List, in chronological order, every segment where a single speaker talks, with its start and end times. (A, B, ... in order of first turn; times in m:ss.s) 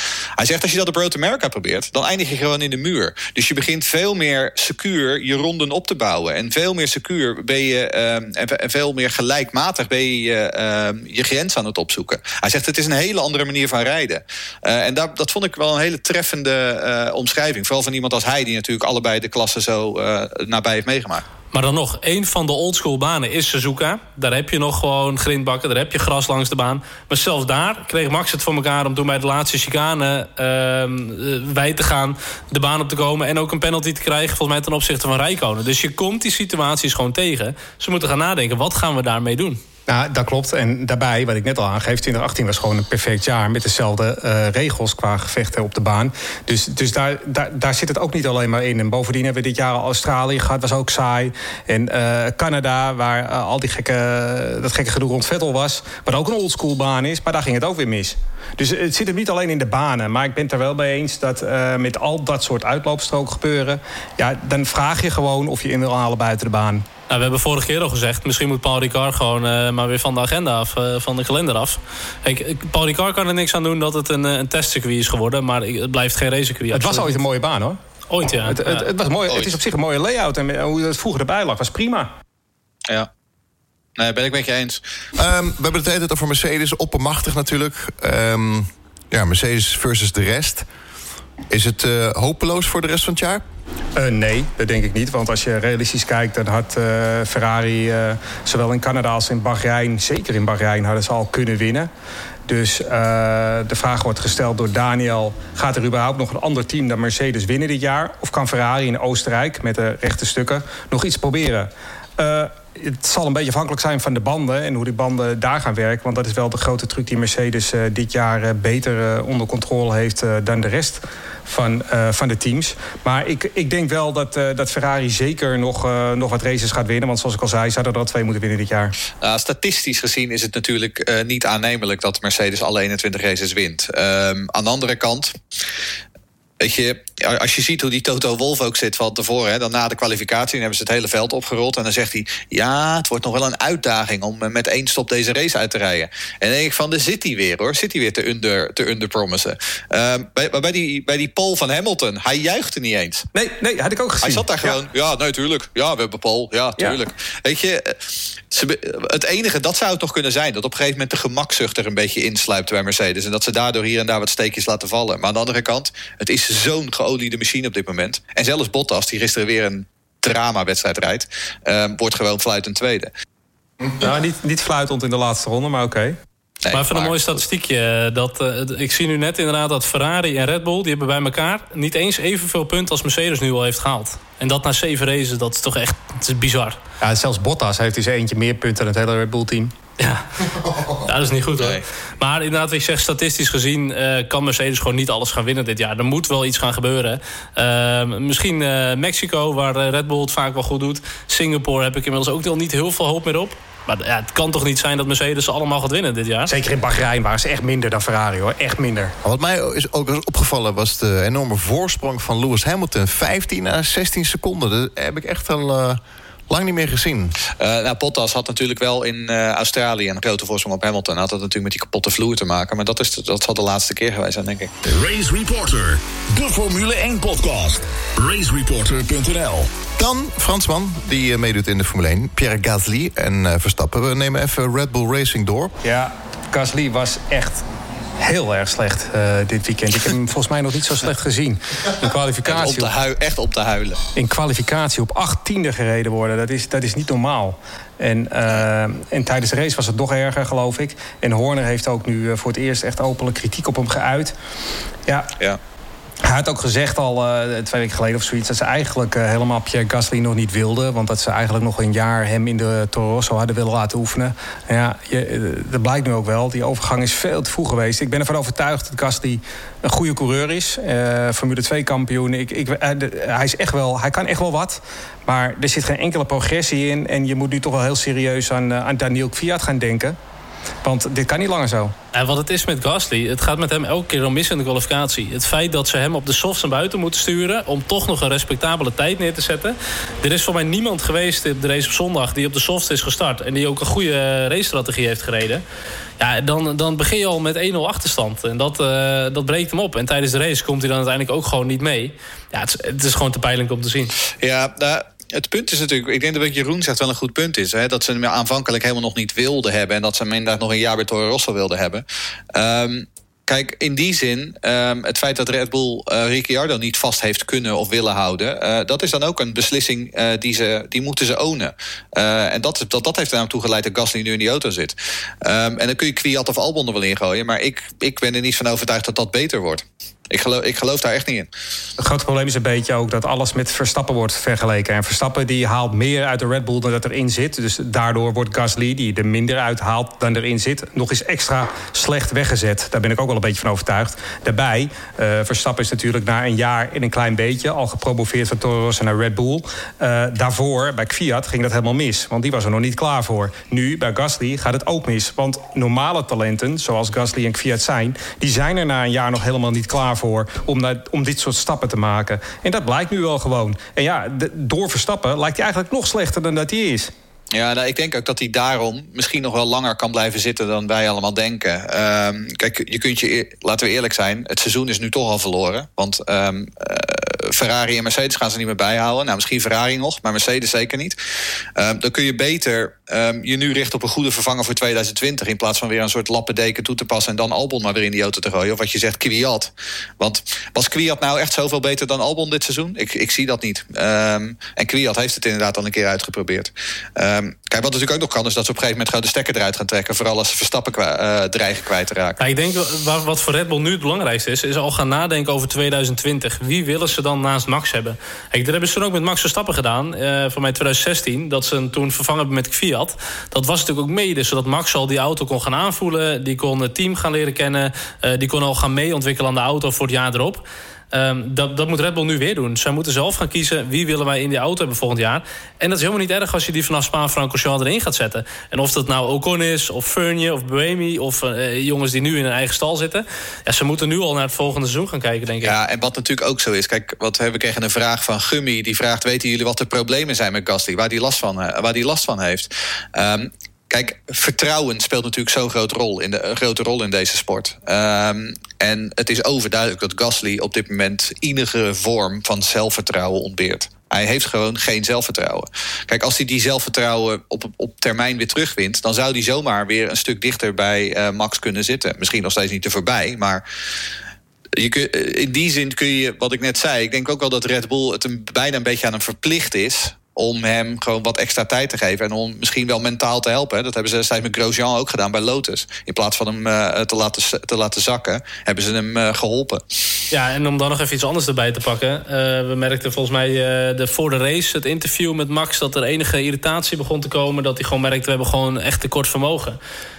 0:00.4-0:21.2 A
0:21.5-0:39.6 B
0:39.9-1:06.8 C
1:07.1-1:17.2 B
1:16.7-1:17.8 C
1:18.1-1:18.9 B
1:18.3-1:22.1 C
1:19.3-1:19.6 A
1:24.0-1:24.8 A
1:25.2-1:30.7 D
1:31.5-1:33.4 D
1:34.0-1:41.9 C
1:42.5-2:09.0 C
2:09.2-2:15.4 A
2:16.6-2:33.2 A
2:33.3-2:34.8 C
2:34.2-2:53.1 A
2:54.0-2:56.2 C
2:56.6-2:57.4 A
2:56.7-3:06.8 B
3:07.0-3:09.7 C
3:10.0-3:10.3 B
3:10.9-3:26.5 B
3:26.5-3:29.1 C
3:29.2-3:37.4 D
3:37.6-3:44.7 A
3:44.8-3:49.7 E
3:50.0-3:55.7 D
3:55.8-3:57.6 C
3:58.2-4:02.9 C
4:02.4-4:04.0 A
4:04.1-4:14.3 C
4:15.0-4:15.3 C
4:16.2-4:40.2 C
4:40.8-4:41.9 C
4:42.1-4:55.6 B
4:56.2-5:04.1 B
5:04.4-5:31.5 A
5:32.0-6:07.1 C
6:07.5-6:21.2 A
6:21.8-6:42.4 A
6:42.4-7:15.7 B
7:15.6-7:43.6 A
7:44.8-7:59.8 A
8:00.3-8:09.8 B